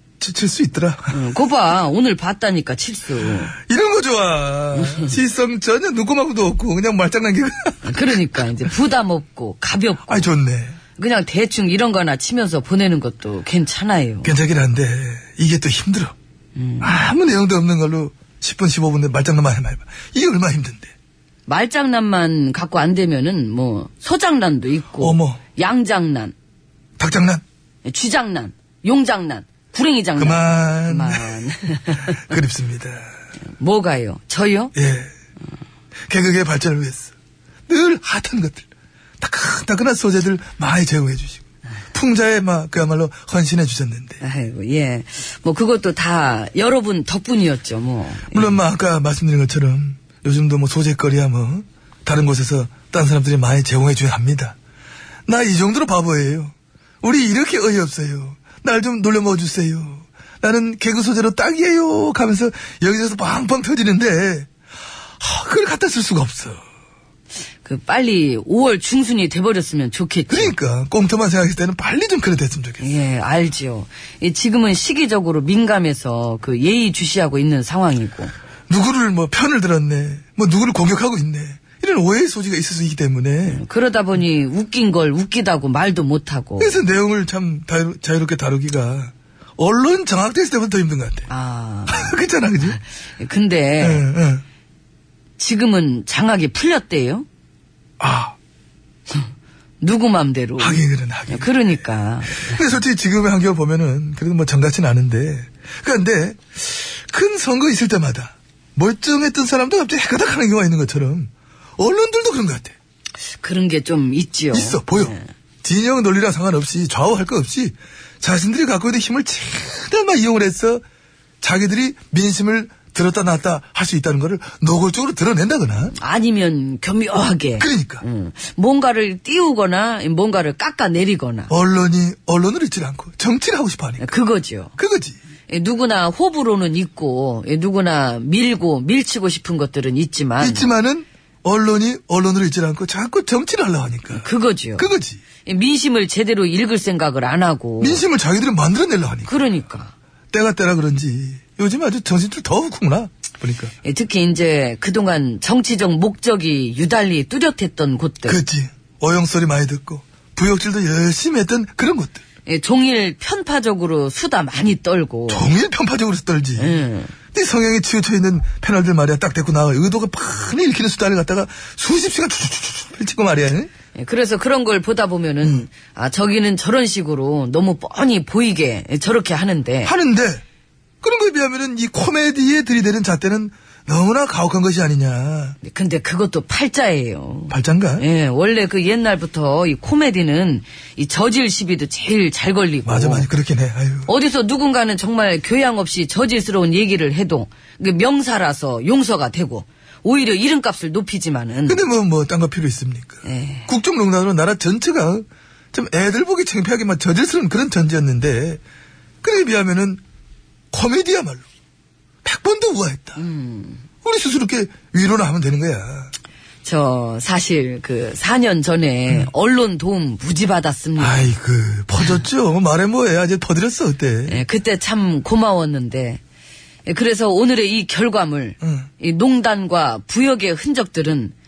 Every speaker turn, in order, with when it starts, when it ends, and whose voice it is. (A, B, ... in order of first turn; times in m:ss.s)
0:00.2-0:01.2 A
0:01.1-0:03.5 B
0:03.5-0:08.2 A
0:04.8-0:05.1 B
0:07.8-0:10.3 B
0:10.1-0:10.8 A
0:11.0-0:14.3 B
0:14.2-0:16.1 A
0:16.6-0:17.0 B
0:16.8-0:20.9 A
0:21.5-0:26.3 B
0:25.0-0:25.4 A
0:27.0-0:27.4 A
0:27.8-0:32.2 B
0:30.2-0:31.5 A
0:32.1-0:33.1 A
0:33.6-0:34.7 B
0:34.8-0:35.1 A
0:36.1-0:37.1 A
0:37.7-0:38.7 A
0:39.2-0:41.4 A
0:41.9-0:44.2 A
0:44.2-0:48.6 B
0:48.3-0:54.6 A
0:55.3-1:04.5 A
1:05.2-1:06.6 A
1:07.6-1:10.5 B
1:10.3-1:12.8 A
1:12.8-1:18.3 B
1:18.7-1:23.6 A
1:23.5-1:26.8 B
1:26.6-1:31.3 A
1:31.3-1:34.1 B
1:31.9-1:32.8 A
1:33.8-1:34.4 A
1:35.4-1:37.3 B
1:38.0-1:38.4 A
1:39.8-1:42.6 B
1:40.6-1:41.8 A
1:42.4-1:52.8 A
1:53.4-1:55.3 B
1:54.5-2:00.8 A
2:01.4-2:05.9 A
2:06.0-2:11.5 B
2:07.6-2:08.0 A
2:11.5-2:14.2 A
2:14.0-2:14.7 B
2:14.8-2:15.2 A
2:15.5-2:20.7 B
2:20.4-2:24.3 A
2:24.1-2:24.9 B
2:24.8-2:25.2 A
2:25.4-2:28.0 B
2:27.8-2:29.3 A
2:29.3-2:29.9 B
2:30.3-2:33.7 A
2:33.8-2:38.4 B
2:38.3-2:42.2 A
2:42.5-2:45.4 B
2:45.3-2:46.8 A
2:46.6-2:47.1 B
2:47.3-2:53.7 A
2:54.0-2:59.9 B
2:59.8-3:00.4 A
3:01.0-3:05.6 A
3:05.6-3:13.3 B
3:07.5-3:08.0 A
3:12.9-3:14.1 A
3:14.1-3:21.8 B
3:21.7-3:28.6 A
3:23.2-3:23.7 B
3:29.2-3:30.0 A
3:30.7-3:31.4 A
3:32.2-3:33.2 A
3:33.2-3:33.8 B
3:34.0-3:36.1 A
3:36.6-3:41.3 B
3:41.0-3:44.4 A
3:44.3-3:46.2 B
3:46.9-3:51.3 B
3:48.6-3:48.9 A